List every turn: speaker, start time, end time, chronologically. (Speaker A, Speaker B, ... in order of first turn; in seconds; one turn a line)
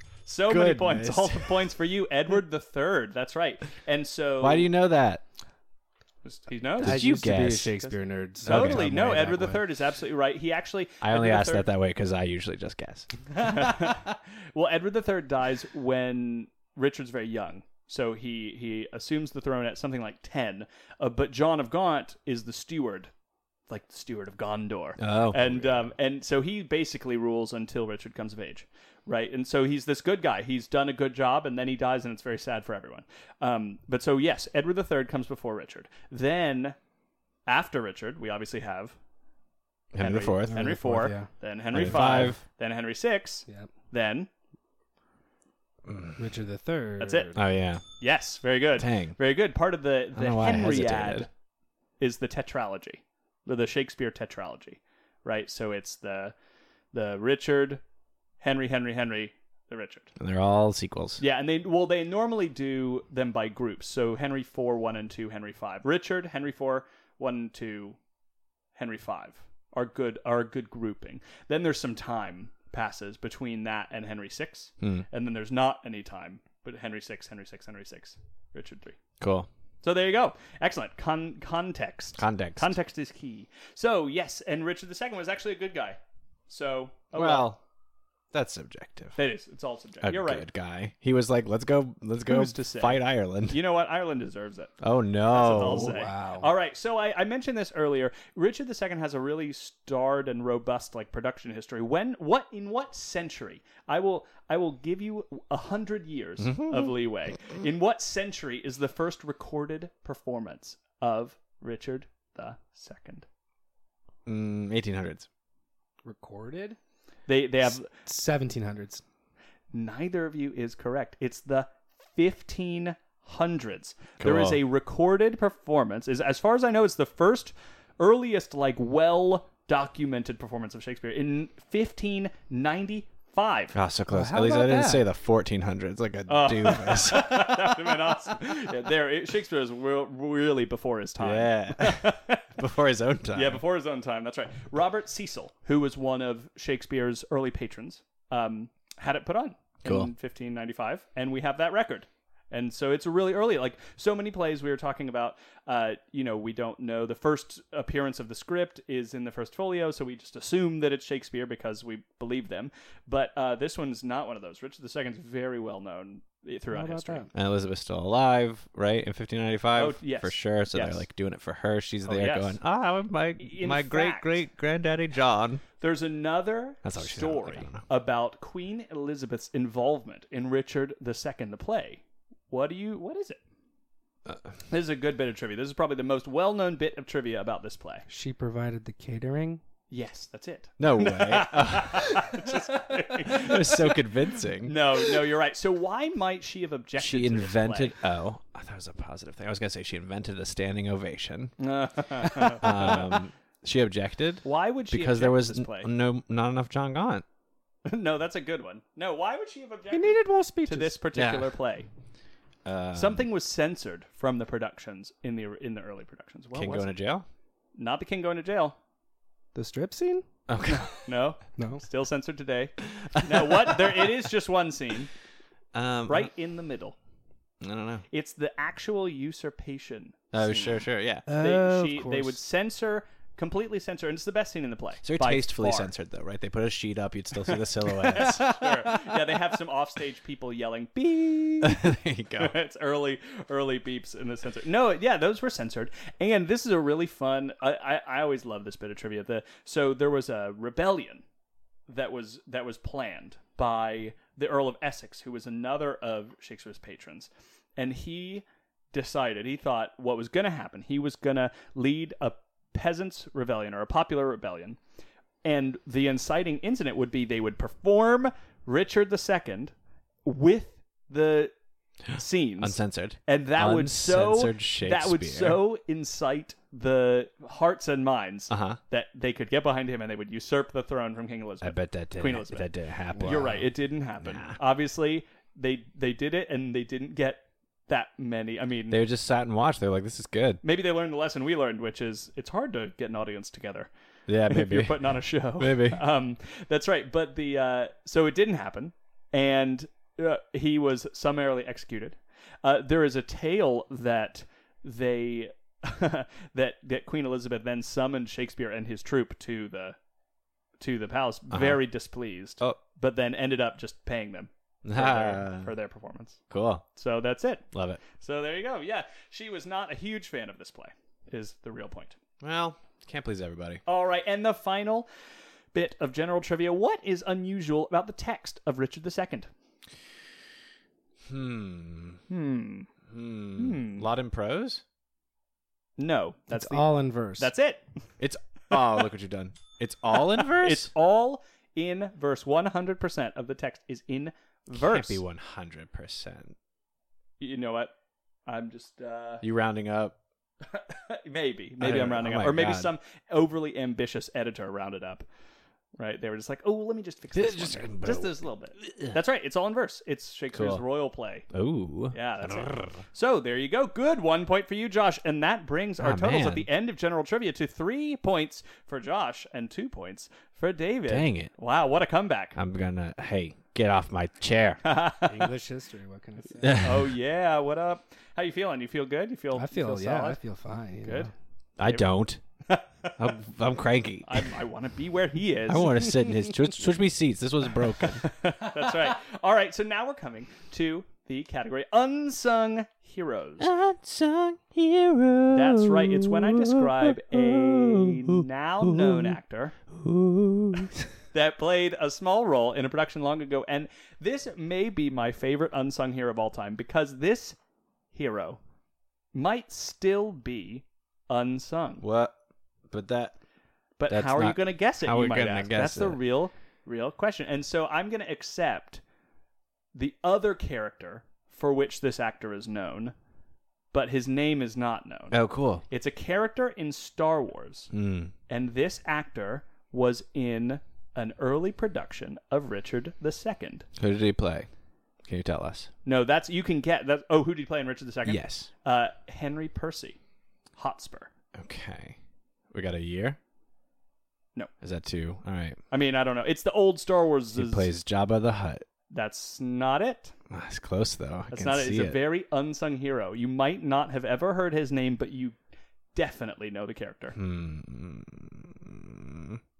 Speaker A: 0.3-4.7
Speaker B: 0.5-1.7
Speaker B: 4.4-5.2
Speaker A: 6.2-7.0
Speaker B: 6.8-7.8
Speaker C: 6.8-9.6
Speaker B: 8.5-8.9
Speaker A: 8.5-11.7
Speaker B: 11.0-13.5
Speaker A: 13.3-23.1
Speaker A: 23.7-36.8
Speaker B: 25.0-25.9
Speaker A: 37.5-39.0
Speaker B: 39.9-40.8
Speaker A: 40.0-44.3
Speaker C: 40.5-41.3
Speaker B: 41.7-42.4
Speaker B: 45.9-46.2
Speaker C: 46.2-47.4
Speaker A: 47.0-47.3
Speaker B: 47.4-47.8
Speaker A: 48.0-51.3
Speaker B: 48.8-49.2
Speaker B: 50.1-51.3
Speaker A: 52.0-56.4
Speaker A: 56.9-57.8
Speaker A: 58.4-60.1
Speaker B: 60.2-61.2
Speaker A: 61.2-68.0
Speaker A: 68.8-79.0
Speaker B: 74.8-75.1
Speaker B: 79.2-79.5
Speaker A: 79.8-87.5
Speaker B: 82.2-82.8
Speaker B: 87.1-87.6
Speaker B: 88.3-89.2
Speaker A: 89.2-90.5
Speaker B: 90.0-93.6
Speaker A: 92.3-94.8
Speaker B: 94.8-96.0
Speaker A: 95.3-113.3
Speaker C: 95.5-96.5
Speaker B: 106.4-107.0
Speaker B: 114.3-115.3
Speaker C: 116.0-116.8
Speaker A: 117.3-117.9
Speaker C: 117.9-119.0
Speaker A: 119.7-133.8
Speaker B: 124.2-124.6
Speaker B: 133.7-137.9
Speaker C: 134.1-135.0
Speaker A: 136.3-142.4
Speaker B: 141.2-143.6
Speaker A: 143.3-167.3
Speaker B: 149.8-150.1
Speaker C: 166.7-167.3
Speaker B: 167.3-175.6
Speaker A: 169.8-171.1
Speaker A: 172.1-172.6
Speaker A: 173.4-174.4
Speaker A: 175.8-183.4
Speaker B: 176.8-177.8
Speaker A: 184.7-188.1
Speaker C: 188.1-189.6
Speaker A: 189.9-194.1
Speaker B: 190.8-195.1
Speaker A: 194.6-197.9
Speaker B: 197.0-201.6
Speaker A: 201.6-203.2
Speaker B: 202.2-207.2
Speaker A: 204.4-205.9
Speaker A: 207.9-211.9
Speaker C: 209.9-211.0
Speaker B: 211.1-211.5
Speaker B: 212.7-213.2
Speaker A: 212.9-216.9
Speaker B: 216.5-217.2
Speaker A: 217.8-218.8
Speaker C: 219.5-220.3
Speaker B: 220.5-221.1
Speaker A: 220.7-225.1
Speaker C: 221.6-221.8
Speaker B: 223.1-224.1
Speaker B: 225.7-226.3
Speaker A: 226.1-227.0
Speaker B: 227.6-228.1
Speaker A: 228.1-235.9
Speaker B: 230.3-231.3
Speaker C: 231.3-232.4
Speaker B: 235.0-239.3
Speaker A: 237.5-251.2
Speaker B: 241.6-242.5
Speaker A: 251.9-264.8
Speaker A: 265.4-269.7
Speaker A: 270.2-271.5
Speaker A: 272.1-282.7
Speaker B: 272.6-275.6
Speaker B: 278.5-278.8
Speaker B: 281.6-283.7
Speaker C: 283.1-283.5
Speaker A: 283.2-289.0
Speaker B: 284.2-284.6
Speaker B: 288.9-290.6
Speaker A: 290.6-293.9
Speaker B: 294.3-296.0
Speaker A: 294.5-310.0
Speaker A: 310.8-316.4
Speaker B: 311.5-311.8
Speaker B: 314.9-315.8
Speaker B: 316.5-316.9
Speaker A: 316.9-317.6
Speaker B: 317.7-318.0
Speaker A: 318.2-322.2
Speaker B: 322.4-323.8
Speaker A: 323.9-325.1
Speaker A: 325.7-329.5
Speaker B: 331.3-332.2
Speaker A: 332.3-332.9
Speaker B: 333.1-334.8
Speaker A: 333.6-334.1
Speaker A: 336.0-337.8
Speaker C: 336.5-337.5
Speaker B: 338.2-340.9
Speaker A: 340.4-345.2
Speaker B: 344.7-346.6
Speaker A: 347.4-347.9
Speaker A: 348.5-349.4
Speaker B: 349.4-350.1
Speaker A: 350.7-355.2
Speaker B: 351.8-352.9
Speaker A: 356.0-361.5
Speaker B: 357.4-359.2
Speaker B: 360.5-360.8
Speaker B: 361.5-363.0
Speaker A: 362.1-372.6
Speaker B: 366.0-366.7
Speaker B: 371.1-371.5
Speaker B: 372.6-374.8
Speaker A: 374.8-375.5
Speaker C: 375.2-376.8
Speaker B: 376.6-377.1
Speaker A: 376.8-380.4
Speaker C: 379.6-381.3
Speaker A: 381.0-381.3
Speaker B: 381.8-382.4
Speaker A: 382.7-383.2
Speaker B: 383.2-384.5
Speaker A: 384.2-386.0
Speaker B: 385.7-388.3
Speaker A: 388.2-393.7
Speaker B: 393.6-399.4
Speaker A: 395.5-399.8
Speaker B: 399.9-401.1
Speaker A: 401.3-407.6
Speaker A: 408.1-408.6
Speaker A: 409.4-412.0
Speaker B: 412.0-412.3
Speaker B: 412.9-413.4
Speaker A: 414.0-419.0
Speaker B: 414.1-416.2
Speaker A: 419.9-423.1
Speaker A: 423.9-427.9
Speaker B: 425.3-425.8
Speaker B: 427.9-428.3
Speaker A: 428.5-433.9
Speaker B: 434.0-434.7
Speaker B: 435.3-435.9
Speaker A: 436.1-440.2
Speaker B: 438.3-438.7
Speaker A: 440.8-441.3
Speaker B: 441.6-442.2
Speaker B: 442.7-443.4
Speaker B: 444.8-445.8
Speaker A: 445.9-447.9
Speaker B: 447.6-448.9
Speaker A: 449.1-450.3
Speaker B: 450.5-452.2
Speaker A: 451.5-455.6
Speaker A: 456.1-457.4
Speaker B: 457.4-459.6